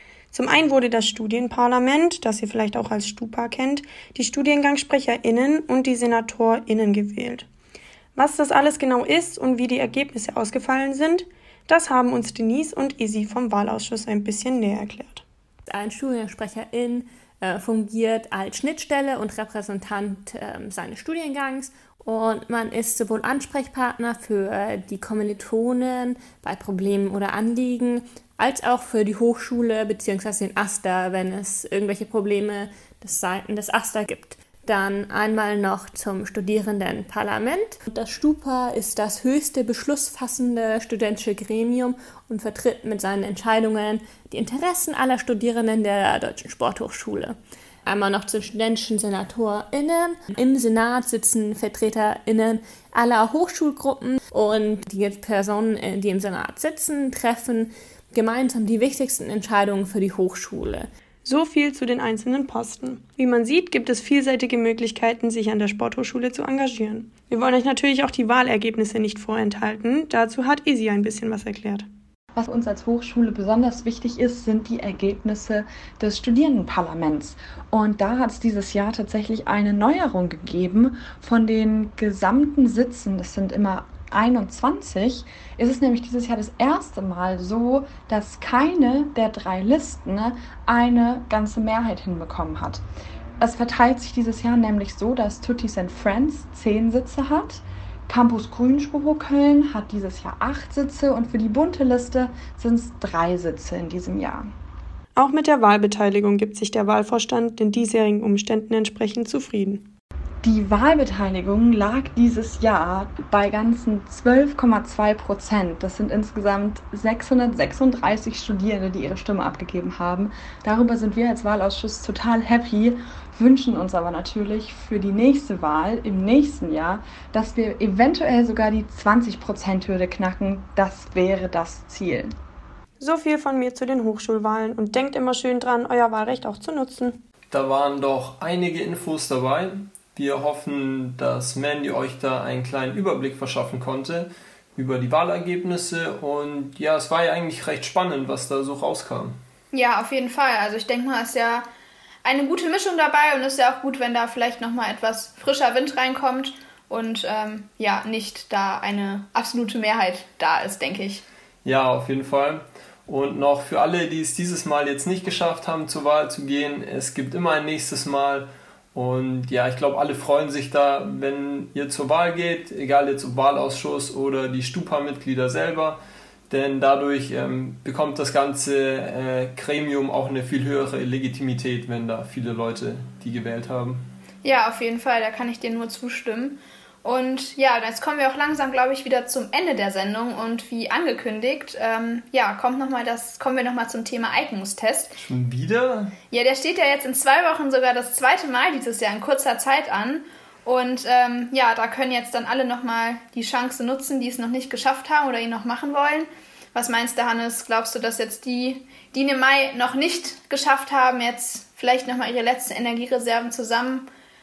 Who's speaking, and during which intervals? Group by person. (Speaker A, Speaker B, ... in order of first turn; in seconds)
Speaker A: 0.3-7.5, 8.2-15.2, 61.2-71.9, 105.2-109.9, 133.0-137.2
Speaker B: 15.7-60.9
Speaker C: 72.3-92.8, 93.4-104.5, 110.4-132.3
Speaker D: 137.5-149.3, 161.6-184.1, 195.2-196.1
Speaker E: 149.7-151.7, 152.2-161.2, 184.4-195.1, 196.3-214.1